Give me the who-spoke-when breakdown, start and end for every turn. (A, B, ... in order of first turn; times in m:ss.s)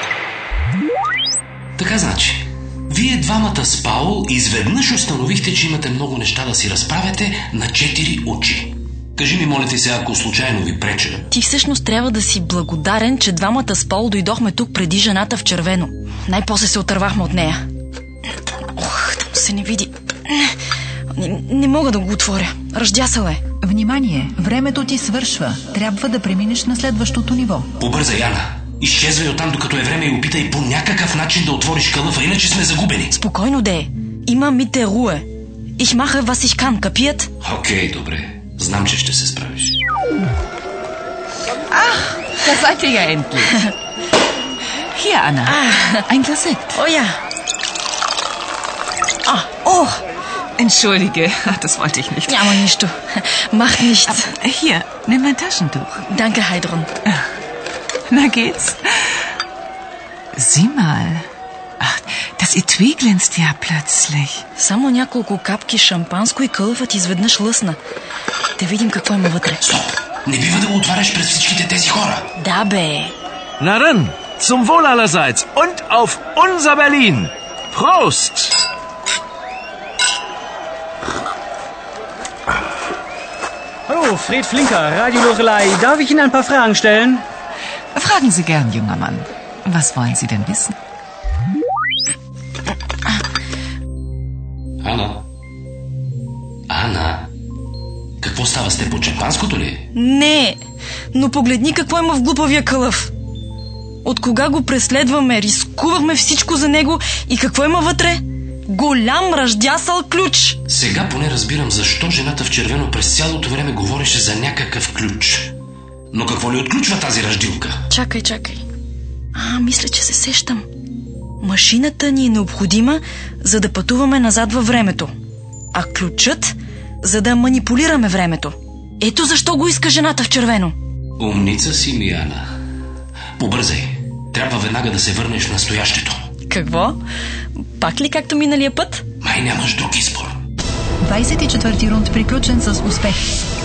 0:01.8-0:11.3 A
0:11.3-0:17.6 B
0:18.8-0:20.5 B
0:21.2-0:23.4 B
0:23.6-0:27.7 C
0:27.8-0:33.2 A
0:33.1-0:37.3 B
0:37.4-0:39.8 A
0:41.7-0:43.7 D
0:44.9-0:46.8 D
0:45.4-0:46.0 B
0:46.8-0:47.2 B
0:49.2-0:49.5 B
0:49.6-0:50.0 D
0:50.6-0:52.6 D
0:52.3-0:54.3 B
0:54.0-0:56.0 D
0:56.0-0:56.9 B
0:58.1-0:59.1 D
1:00.4-1:01.3 D
1:01.8-1:04.4 D
1:04.6-1:07.8 B
1:08.6-1:09.6 B
1:09.6-1:12.3 A
1:12.4-1:13.1 B
1:13.6-1:18.6 E
1:23.9-1:27.3 F
1:28.0-1:30.8 D
1:34.8-1:35.3 A
1:36.7-1:37.3 A
1:38.2-1:39.9 A
1:39.9-1:40.6 B
1:41.1-1:43.1 B
1:44.0-1:50.6 B
1:50.7-1:55.5 A
1:56.1-1:57.8 A
1:57.9-1:58.6 B
1:59.3-2:00.6 B
2:01.4-2:05.1 B
2:05.7-2:10.8 B
2:11.2-2:12.5 A
2:13.4-2:16.2 A
2:16.5-2:17.0 B
2:17.6-2:19.0 B
2:19.2-2:20.4 A
2:21.0-2:23.3 C